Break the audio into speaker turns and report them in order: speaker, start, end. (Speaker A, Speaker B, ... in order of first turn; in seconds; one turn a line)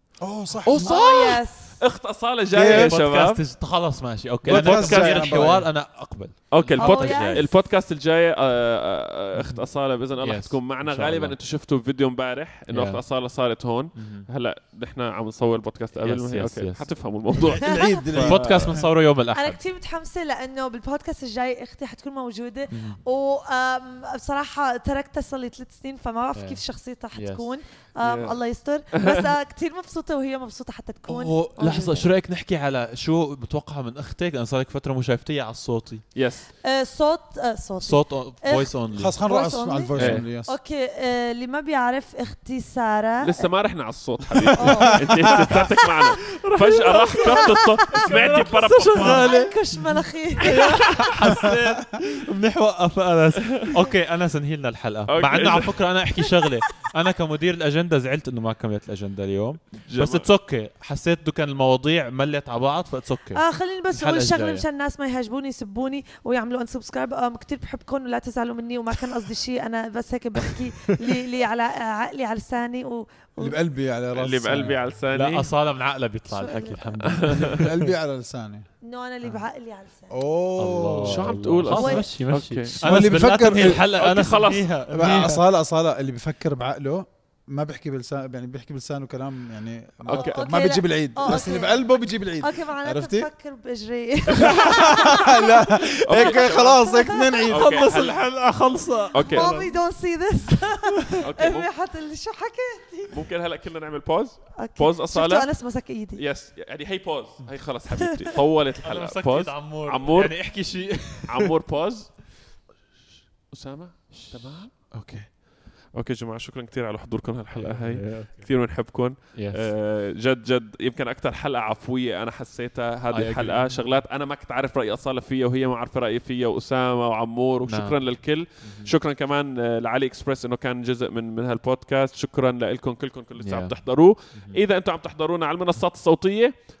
Speaker A: 0.2-0.9
Speaker B: 0.6-3.4
Speaker C: 0.8-1.7
Speaker A: 2.5-2.9
Speaker D: 2.7-7.5
Speaker A: 4.4-5.7
Speaker B: 4.5-5.6
Speaker B: 6.5-18.6
Speaker C: 6.8-7.5
Speaker D: 9.3-9.6
Speaker D: 10.2-11.3
Speaker D: 12.7-13.0
Speaker D: 14.0-14.3
Speaker D: 15.9-16.8
Speaker A: 17.6-18.9
Speaker C: 17.6-18.1
Speaker D: 18.1-19.6
Speaker C: 19.3-32.1
Speaker D: 22.7-23.0
Speaker D: 26.4-26.6
Speaker D: 27.1-27.5
Speaker B: 28.0-28.4
Speaker B: 29.0-29.2
Speaker D: 31.1-36.1
Speaker B: 36.1-36.5
Speaker C: 36.6-39.9
Speaker D: 37.8-39.1
Speaker A: 38.9-40.5
Speaker D: 40.0-40.2
Speaker B: 40.0-40.2
Speaker C: 40.4-43.5
Speaker B: 43.2-49.3
Speaker C: 44.5-50.9
Speaker A: 44.6-45.5
Speaker D: 47.9-49.5
Speaker D: 50.4-63.4
Speaker B: 50.4-51.4
Speaker B: 55.1-55.7
Speaker C: 56.4-56.7
Speaker B: 59.9-60.3
Speaker C: 63.3-73.6
Speaker D: 63.9-64.6
Speaker A: 73.4-74.7
Speaker B: 74.1-75.5
Speaker D: 74.5-77.9
Speaker C: 76.3-76.8
Speaker B: 77.0-77.6
Speaker A: 77.5-78.6
Speaker C: 78.8-80.1
Speaker A: 80.1-81.3
Speaker D: 80.6-85.4
Speaker B: 81.0-84.8
Speaker C: 81.7-82.1
Speaker A: 82.8-83.9
Speaker A: 84.9-93.3
Speaker B: 90.1-90.4
Speaker C: 90.1-97.4
Speaker B: 94.4-94.8
Speaker A: 94.4-97.9
Speaker B: 96.1-96.9
Speaker D: 97.5-99.8
Speaker B: 97.5-98.3
Speaker B: 99.1-99.5
Speaker C: 99.1-103.2
Speaker B: 101.2-101.7
Speaker B: 103.1-105.5
Speaker C: 104.6-106.2
Speaker B: 106.2-110.3
Speaker D: 108.8-111.5
Speaker B: 111.3-112.2
Speaker B: 113.5-114.7
Speaker D: 114.1-115.3
Speaker B: 115.9-136.5
Speaker D: 117.5-118.5
Speaker D: 119.3-119.7
Speaker D: 123.1-123.8
Speaker D: 127.7-128.0
Speaker D: 128.6-128.9
Speaker D: 133.4-133.7
Speaker D: 134.3-134.6